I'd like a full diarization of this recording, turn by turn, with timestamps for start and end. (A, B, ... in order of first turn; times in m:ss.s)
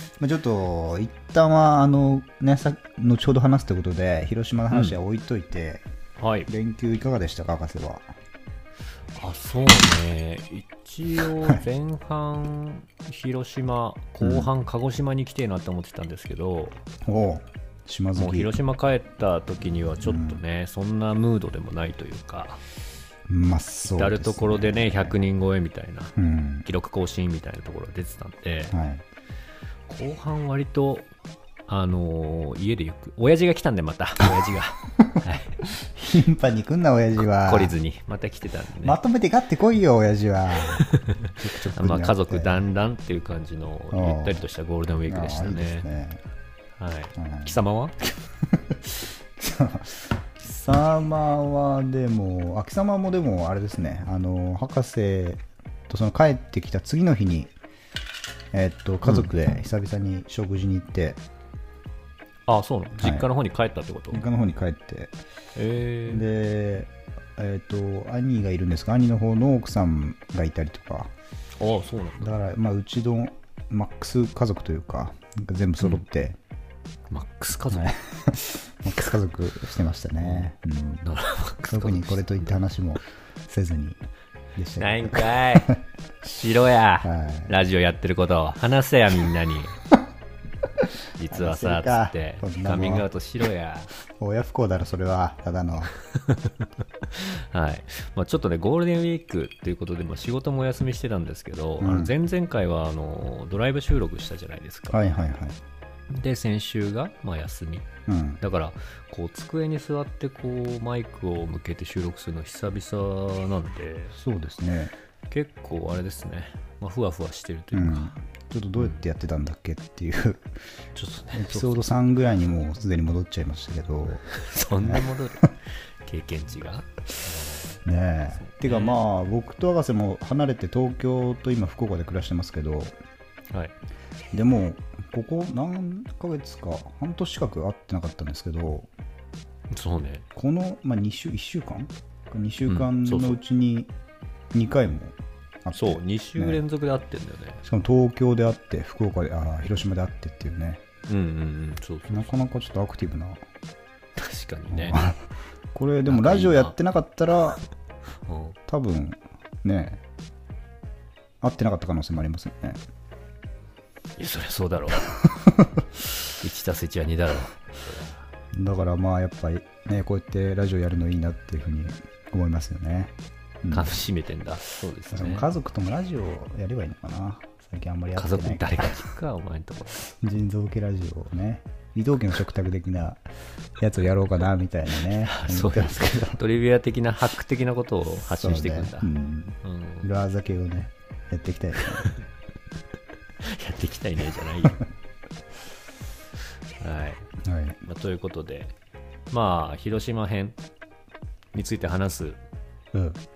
0:00.2-0:05.8 A
0:04.7-0:05.0 B
0:06.2-0:06.5 B
0:06.5-0:08.0 A
0:09.2-0:16.8 B
0:14.2-0:14.5 A
0:17.0-0:18.5 A
0:18.2-0:22.6 B
0:20.0-0:20.4 A
0:23.3-0:25.2 A
0:23.9-0:26.1 B
0:26.2-0:26.6 A
0:26.6-0:28.7 B
0:28.7-0:29.0 A
0:29.9-0:31.1 B
0:31.7-0:35.5 B
0:35.8-0:37.7 A
0:37.4-0:39.0 B
0:38.8-0:40.8 A
0:40.8-0:45.9 B
0:41.4-0:42.6 A
0:43.9-0:44.4 A
0:45.1-0:46.2 A
0:46.8-0:47.9 B
0:47.2-0:47.5 A
0:48.5-0:57.5 A
0:58.5-1:01.2 A
1:02.5-1:04.2 B
1:03.0-1:03.3 A
1:04.1-1:05.1 A
1:05.6-1:06.2 B
1:06.1-1:11.1 A
1:11.6-1:12.3 B
1:12.2-1:16.4 A
1:17.1-1:17.9 B
1:17.7-1:21.0 A
1:20.2-1:20.5 B
1:21.0-1:22.3 B
1:21.7-1:24.0 A
1:24.6-1:25.8 A
1:24.8-1:25.7 B
1:26.2-1:29.7 B
1:27.0-1:27.5 A
1:31.2-1:33.9 B
1:31.3-1:33.0 A
1:34.2-1:35.9 A
1:36.2-1:45.0 B
1:41.8-1:42.1 A
1:44.9-1:45.6 A
1:46.1-1:47.9 B
1:48.1-1:48.4 A
1:48.4-1:54.1 B
1:54.1-1:54.9 A
1:55.3-1:58.1 B
1:57.7-2:00.5 A
2:00.9-2:01.8 B
2:01.3-2:04.2 A
2:04.3-2:07.8 B
2:07.8-2:12.9 A
2:08.5-2:09.0 B
2:14.3-2:18.9 A
2:19.7-2:20.2 B
2:20.3-2:23.9 A
2:22.7-2:23.4 B
2:24.5-2:26.6 A
2:25.7-2:27.6 B
2:27.6-2:30.8 A
2:31.1-2:32.3 B
2:32.1-2:33.4 A
2:34.2-2:35.0 B
2:34.7-2:35.2 A
2:35.7-2:37.6 A
2:36.1-2:36.7 B
2:38.3-2:38.6 B
2:38.7-2:40.0 A
2:41.4-2:42.8 A
2:44.2-2:45.1 B
2:46.4-2:48.2 B
2:48.5-2:53.9 A
2:53.7-2:55.5 B
2:55.1-2:59.1 A
2:58.1-3:00.0 B
3:00.1-3:03.2 A
3:03.8-3:06.4 A
3:05.0-3:09.1 B
3:08.3-3:12.1 A
3:09.6-3:10.1 B
3:13.4-3:14.8 B
3:16.8-3:17.3 B
3:17.4-3:17.8 A
3:17.8-3:18.7 B
3:19.3-3:20.6 B
3:21.5-3:22.4 B
3:22.9-3:23.2 A